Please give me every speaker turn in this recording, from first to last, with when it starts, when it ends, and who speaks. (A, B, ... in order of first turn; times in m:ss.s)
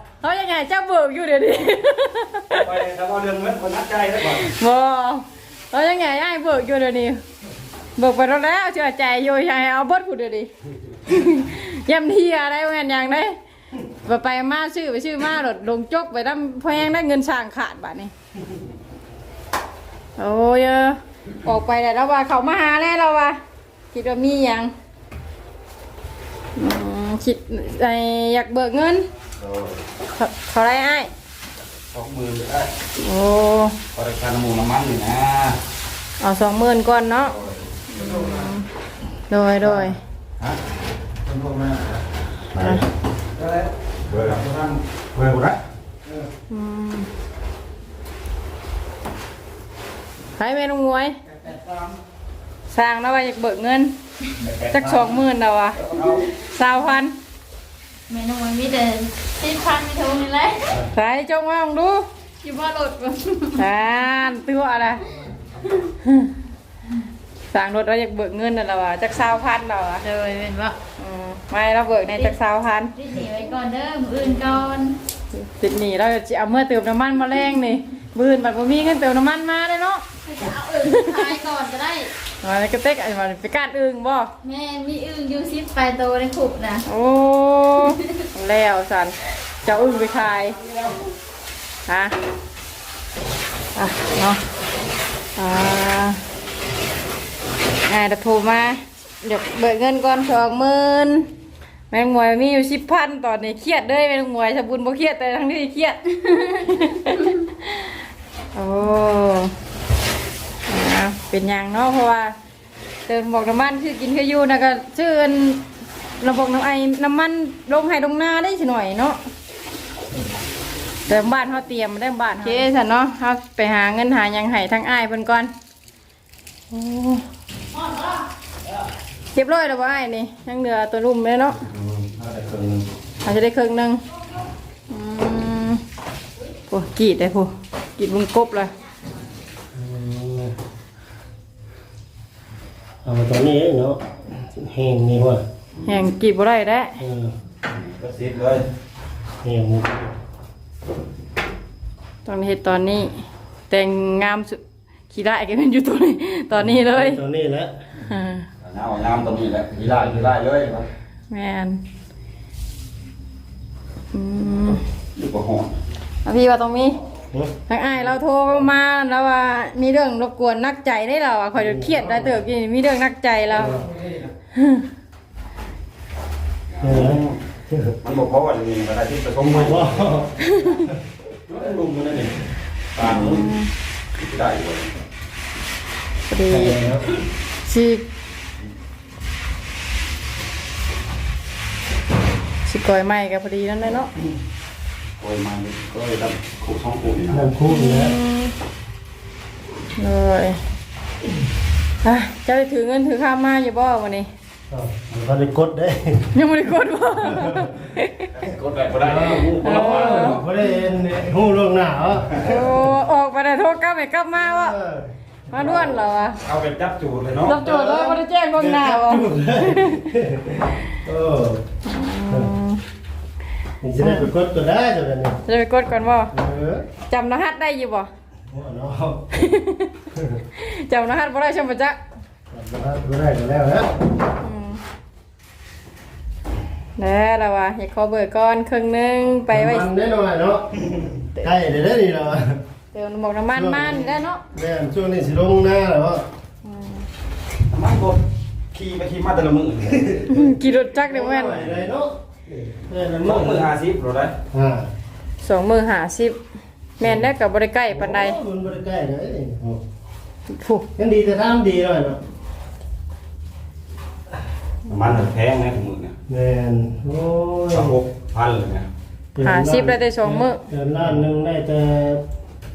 0:00.2-0:02.6 A
0:02.5-0:04.5 B
0:04.4-0:07.2 A
0:08.0-0:10.5 A
0:11.1-0:13.4 A
0:14.0-0:18.1 A
0:20.2-0:23.4 A
0:23.9-0:24.7 A
0:26.6-0:29.1 A
0:29.4-0:29.8 B
0:30.2-0:31.1 A
0:31.9-0:32.7 B
0:33.0-0:33.8 A
0:33.9-0:35.6 B
0:36.2-0:37.3 A
0:37.3-0:37.7 B
0:37.9-0:38.7 A
0:39.3-0:40.0 A
0:41.3-0:41.8 B
0:42.5-0:42.8 B
0:43.4-0:45.6 B
0:46.5-0:47.1 A
0:50.4-0:51.2 A
0:51.4-0:51.9 B
0:52.7-0:53.9 A
0:54.4-0:55.2 B
0:54.7-0:57.1 A
0:55.8-0:56.3 B
0:58.1-1:00.8 C
1:00.9-1:02.0 A
1:02.4-1:03.6 C
1:03.6-1:05.1 A
1:06.0-1:06.3 A
1:07.5-1:10.0 A
1:10.0-1:10.8 C
1:11.0-1:12.9 A
1:13.0-1:15.0 C
1:15.3-1:20.0 A
1:20.2-1:22.1 C
1:20.9-1:21.4 A
1:22.4-1:24.3 A
1:24.4-1:26.8 C
1:26.8-1:30.6 A
1:31.8-1:32.1 A
1:33.7-1:34.4 A
1:35.4-1:36.2 A
1:37.8-1:41.3 A
1:41.9-1:48.0 A
1:48.5-1:49.5 A
1:50.7-1:52.3 A
1:53.1-1:55.6 A
1:56.2-1:59.2 A
2:01.1-2:05.5 A
2:06.7-2:07.2 A
2:09.3-2:11.6 A
2:11.7-2:12.8 B
2:13.2-2:14.0 A
2:14.9-2:15.8 A
2:16.7-2:18.7 A
2:19.7-2:20.5 D
2:23.0-2:25.4 D
2:25.8-2:27.0 A
2:27.0-2:27.3 D
2:27.7-2:28.7 B
2:29.4-2:30.1 D
2:32.2-2:37.2 A
2:36.7-2:37.7 D
2:38.0-2:38.4 A
2:38.6-2:40.9 B
2:41.3-2:41.8 A
2:44.1-2:44.8 A
2:45.2-2:45.8 B
2:46.2-2:47.0 A
2:47.7-2:53.8 A
2:51.6-2:52.4 D
2:53.6-2:53.9 D
2:54.5-2:54.8 A
2:56.8-2:57.4 B
2:56.8-2:57.9 D
2:58.0-3:00.2 B
2:59.5-3:00.3 D
3:00.4-3:00.8 A
3:01.5-3:03.5 B
3:03.2-3:03.7 A
3:04.1-3:05.0 B
3:06.3-3:06.8 A
3:06.5-3:07.0 D
3:07.6-3:08.0 A
3:12.6-3:14.1 A
3:15.2-3:17.5 B
3:17.3-3:18.2 D
3:17.7-3:18.5 A
3:20.0-3:20.6 A
3:22.0-3:24.3 A
3:24.7-3:26.3 D
3:26.3-3:28.2 A
3:27.3-3:27.7 D
3:28.3-3:30.5 B
3:29.0-3:32.8 D
3:29.6-3:30.4 A
3:32.4-3:34.8 A
3:34.4-3:36.0 D
3:35.5-3:36.4 A
3:36.4-3:37.6 B
3:37.4-3:40.0 A
3:37.5-3:41.6 D
3:41.8-3:42.8 A
3:42.3-3:42.5 D
3:43.8-3:45.4 D
3:44.0-3:44.3 A
3:45.4-3:46.3 A
3:46.3-3:46.8 D
3:47.1-3:48.1 A
3:48.5-3:49.3 D
3:49.3-3:49.9 A
3:50.1-3:50.4 D
3:50.6-3:52.0 A
3:52.5-3:54.0 D
3:54.4-3:54.8 A
3:57.0-3:59.8 A
3:59.5-4:02.6 D
4:02.9-4:04.4 A
4:03.5-4:06.2 D
4:06.6-4:07.0 A
4:07.7-4:08.2 B
4:08.7-4:10.2 B
4:10.3-4:11.6 A
4:11.0-4:13.7 D
4:11.5-4:11.9 B
4:13.2-4:14.3 B
4:14.5-4:14.9 D
4:15.4-4:16.4 A
4:17.0-4:17.3 D
4:17.0-4:18.4 A
4:17.9-4:19.8 D
4:20.5-4:20.9 A
4:21.0-4:22.2 D
4:24.9-4:26.2 B
4:26.3-4:28.0 D
4:27.7-4:28.9 B
4:29.3-4:32.2 D
4:29.4-4:30.6 A